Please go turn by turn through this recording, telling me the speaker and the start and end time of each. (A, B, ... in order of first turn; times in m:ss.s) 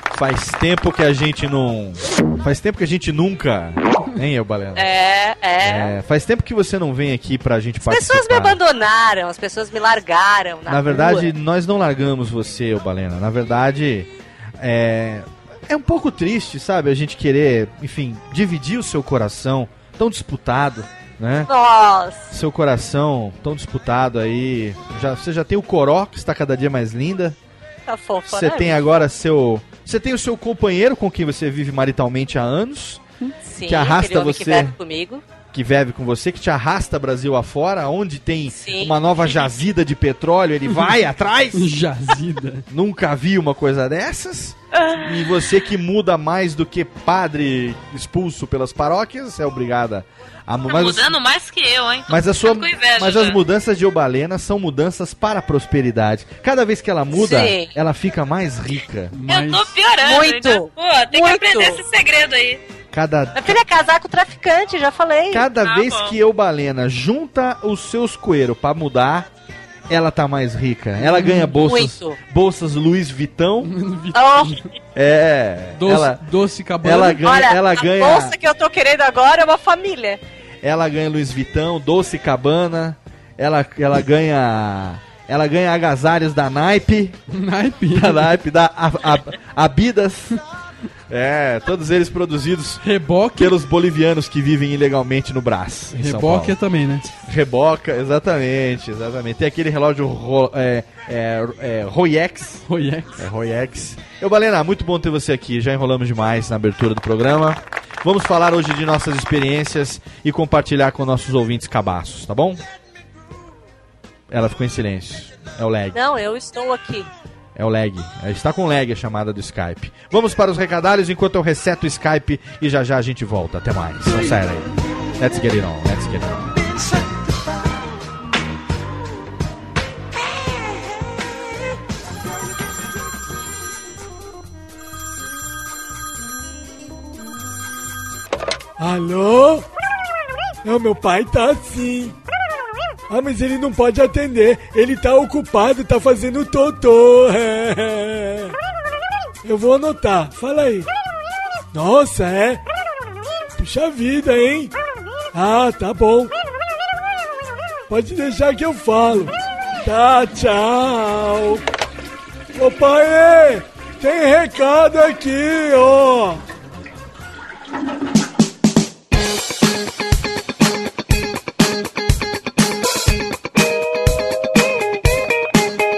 0:00.1-0:04.9 A
0:04.8-0:06.0 B
0:05.6-0:08.6 A
0:07.8-0:11.3 B
0:10.7-0:21.5 A
0:21.5-0:22.3 B
0:22.3-0:27.4 A
0:27.9-0:28.8 B
0:28.3-0:33.0 A
0:33.4-0:35.2 B
0:33.7-0:34.8 A
0:35.5-0:41.8 A
0:38.5-0:38.9 B
0:41.5-0:42.7 C
0:42.7-0:51.1 A
0:44.8-0:45.0 B
0:50.7-0:53.4 D
0:52.1-0:59.2 A
0:57.1-0:57.7 B
0:59.1-0:59.7 C
0:59.3-1:02.6 D
1:00.0-1:01.8 B
1:02.9-1:03.6 A
1:03.3-1:05.5 B
1:05.3-1:09.3 A
1:05.6-1:06.2 D
1:09.9-1:13.7 A
1:11.6-1:12.2 B
1:13.6-1:14.7 C
1:14.1-1:14.6 B
1:15.0-1:16.3 A
1:15.8-1:17.2 C
1:16.8-1:18.4 A
1:17.2-1:20.2 B
1:20.6-1:27.2 A
1:27.3-1:28.3 C
1:27.9-1:30.4 A
1:31.1-1:32.8 A
1:32.8-1:33.6 C
1:33.4-1:36.6 A
1:35.9-1:37.1 C
1:37.2-1:42.7 A
1:42.7-1:43.2 C
1:43.2-1:52.6 A
1:54.3-1:56.0 A
1:55.9-1:57.1 B
1:57.6-2:06.7 A
2:18.8-2:19.6 E
2:20.7-2:22.2 E
2:23.1-2:28.5 E
2:29.5-2:30.9 E
2:31.8-2:32.6 E
2:33.6-2:34.7 E
2:35.4-2:36.3 E
2:37.9-2:39.3 E
2:39.9-2:41.6 E
2:42.6-2:46.4 E